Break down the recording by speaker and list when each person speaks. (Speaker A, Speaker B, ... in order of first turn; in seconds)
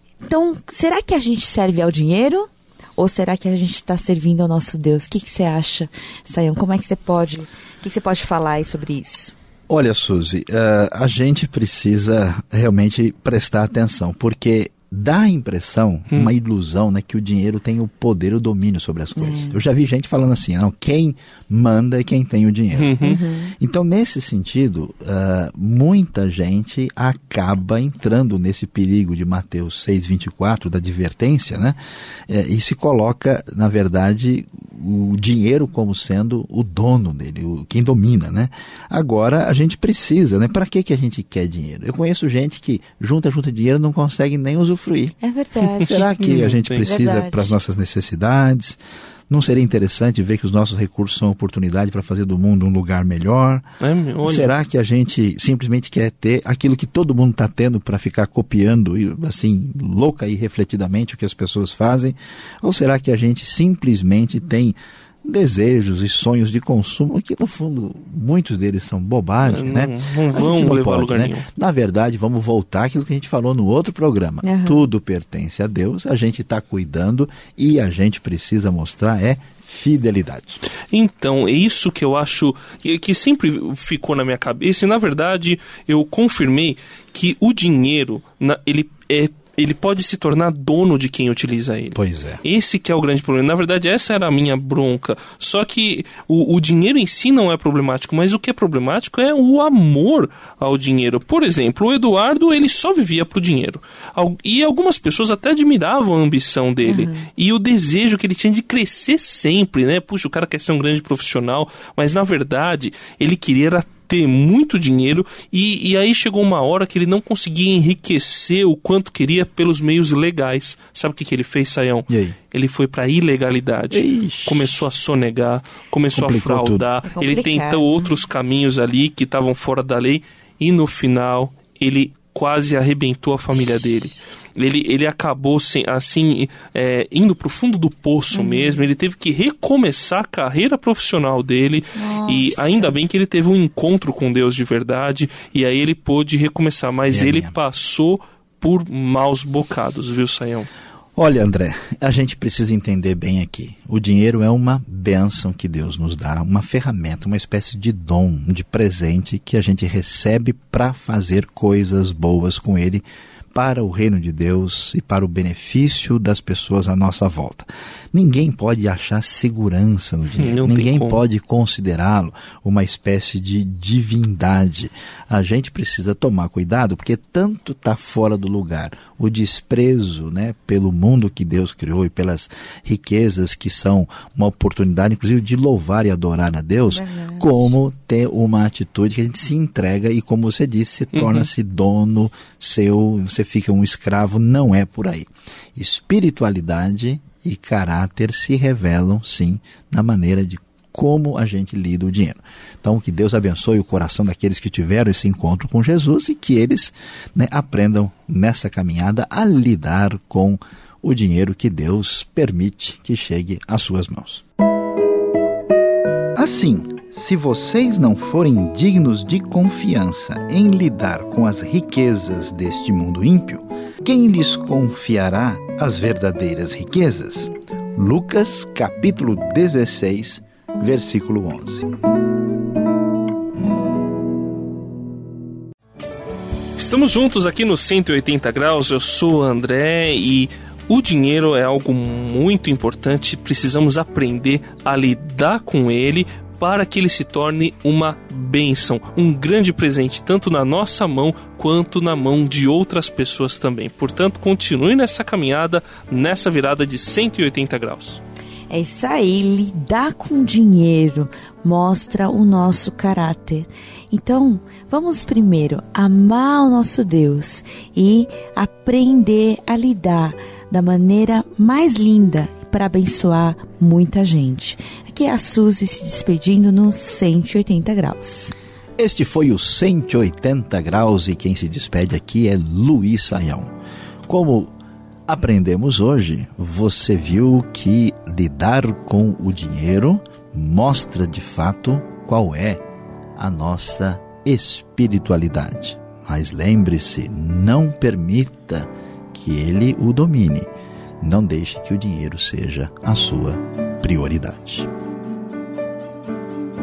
Speaker A: 0.2-9.3, 19.1-19.6, 23.0-23.5, 45.2-46.0, 46.8-47.5, 74.4-74.9, 106.8-107.3, 127.0-128.2, 138.3-138.9, 141.9-143.0, 186.9-187.7, 258.7-278.6
Speaker B: 9.7-45.1, 45.8-53.6, 54.2-80.6, 91.9-92.4, 122.1-122.4, 123.9-124.7, 126.1-126.9, 147.1-147.5, 151.2-214.4, 216.3-231.9, 279.0-283.7, 284.3-284.7, 285.3-292.8, 293.4-300.7, 301.2-304.9
Speaker C: 22.7-23.2, 46.2-46.9, 53.8-54.5, 69.4-71.4, 80.9-150.7, 170.3-171.2, 191.1-191.5, 236.8-258.2